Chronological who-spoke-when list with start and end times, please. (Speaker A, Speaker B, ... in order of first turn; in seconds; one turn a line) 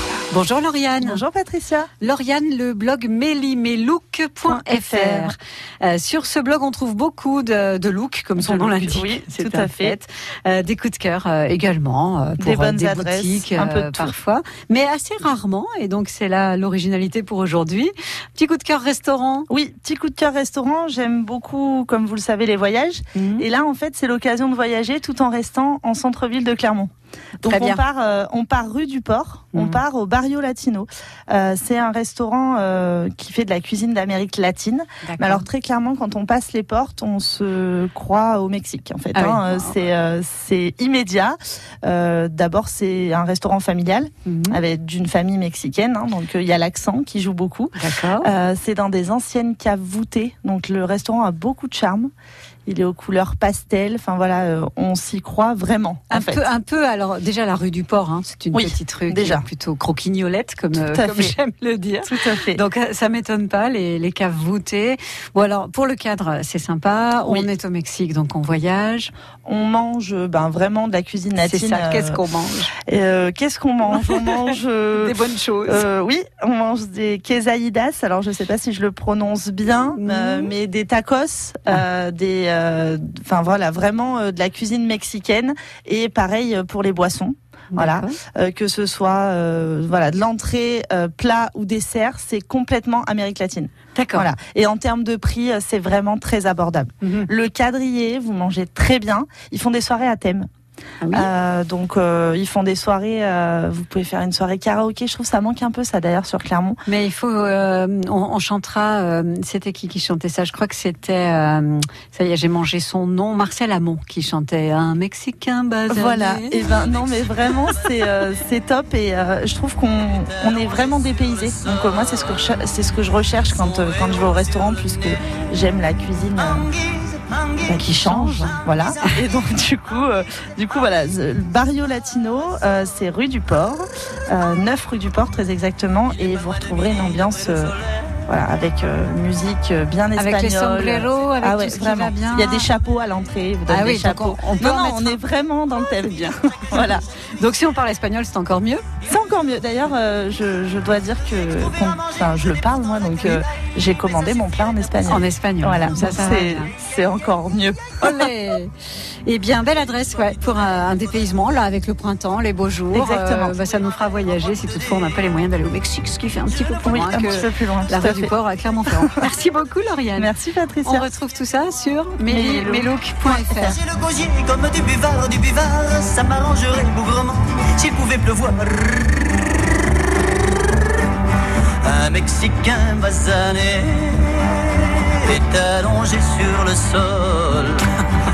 Speaker A: 0.3-1.2
Speaker B: 1.0-1.9
Speaker A: 2.0-19.5
Speaker B: 4.5-5.3
Speaker B: 8.4-10.0
Speaker B: 12.4-14.2
Speaker B: 19.5-52.1
Speaker A: 23.2-23.4
Speaker A: 27.4-27.8
Speaker A: 29.5-29.8
Speaker A: 35.0-35.5
Speaker A: 39.1-39.7
Speaker A: 44.3-44.6
Speaker A: 47.8-48.3
Speaker B: 52.7-56.5
Speaker A: 56.1-69.1
Speaker B: 58.5-59.5
Speaker B: 60.7-61.4
Speaker B: 62.0-62.6
Speaker B: 69.5-72.2
Speaker A: 71.4-72.7
Speaker B: 72.9-75.2
Speaker A: 73.9-74.4
Speaker A: 75.0-75.8
Speaker B: 75.7-100.5
Speaker A: 79.9-80.5
Speaker A: 87.7-88.1
Speaker A: 94.0-94.3
Speaker A: 97.0-97.3
Speaker A: 101.0-101.3
Speaker B: 101.1-106.8
Speaker A: 106.9-116.6
Speaker B: 115.9-126.7
Speaker B: 127.7-147.0
Speaker A: 127.7-129.1
Speaker A: 140.2-142.7
Speaker A: 143.7-145.2
Speaker A: 146.7-148.8
Speaker B: 149.1-158.3
Speaker A: 155.1-156.7
Speaker A: 158.0-158.7
Speaker A: 159.3-170.3
Speaker B: 162.9-163.6
Speaker B: 166.8-168.3
Speaker B: 168.9-169.3
Speaker B: 170.2-171.1
Speaker A: 170.8-173.8
Speaker B: 172.3-173.8
Speaker C: 174.1-178.8
Speaker C: 181.8-187.8